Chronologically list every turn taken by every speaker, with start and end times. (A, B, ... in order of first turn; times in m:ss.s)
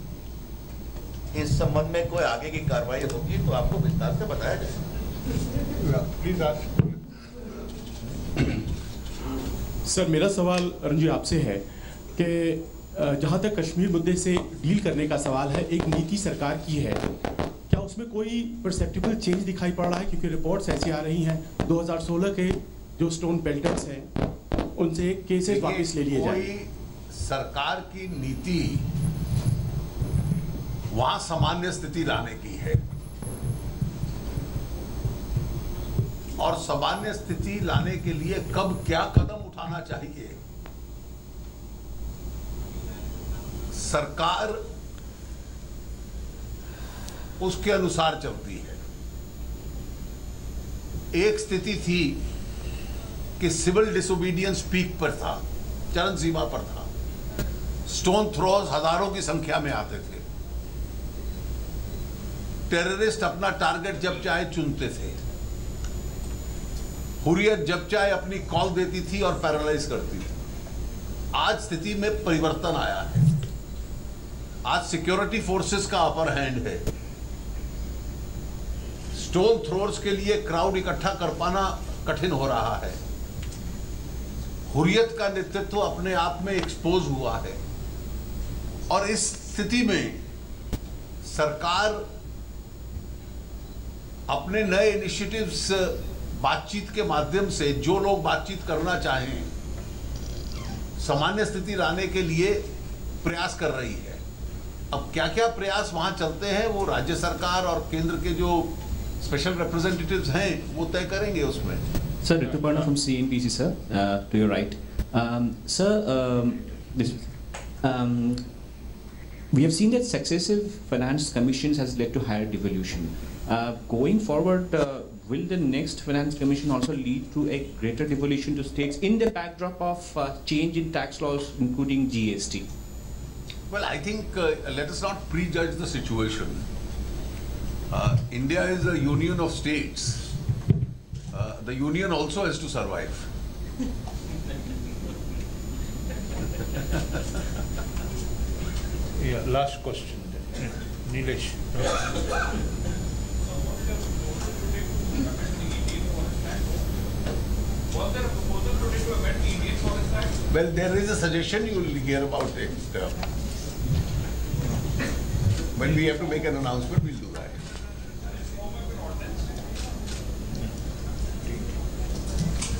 0:01.3-0:04.7 A
0:05.8-0:07.0 B
0:09.8-0:11.6 C
0:12.2-0:17.1 C
0:17.7-0:24.1 C
0:24.8-0:26.5 C
0:25.5-0:28.8 D
0:30.9-0:32.8 D
0:36.4-0:40.4 D
0:43.7-0:44.6 D
0:47.4-0:48.8 D
0:51.1-0:52.2 D
0:53.4-0:56.9 D
0:57.9-1:00.2 D
1:02.7-1:05.2 D
1:07.2-1:10.3 D
1:11.3-1:13.3 D
1:14.6-1:16.8 D
1:19.1-1:23.0 D
1:24.7-1:27.6 D
1:28.9-1:30.2 D
1:31.2-1:32.0 D
1:34.3-1:39.5 D
1:41.0-1:42.7 D
1:43.2-1:44.2 D
1:44.9-1:51.8 D
1:52.2-1:57.3 E
1:57.8-1:58.4 E
1:59.5-2:12.7 E
2:13.7-2:16.7 D
2:17.9-2:20.3 D
2:21.3-2:23.3 D
2:29.2-2:32.0 B
2:40.5-2:43.2 D
2:45.8-2:47.6 D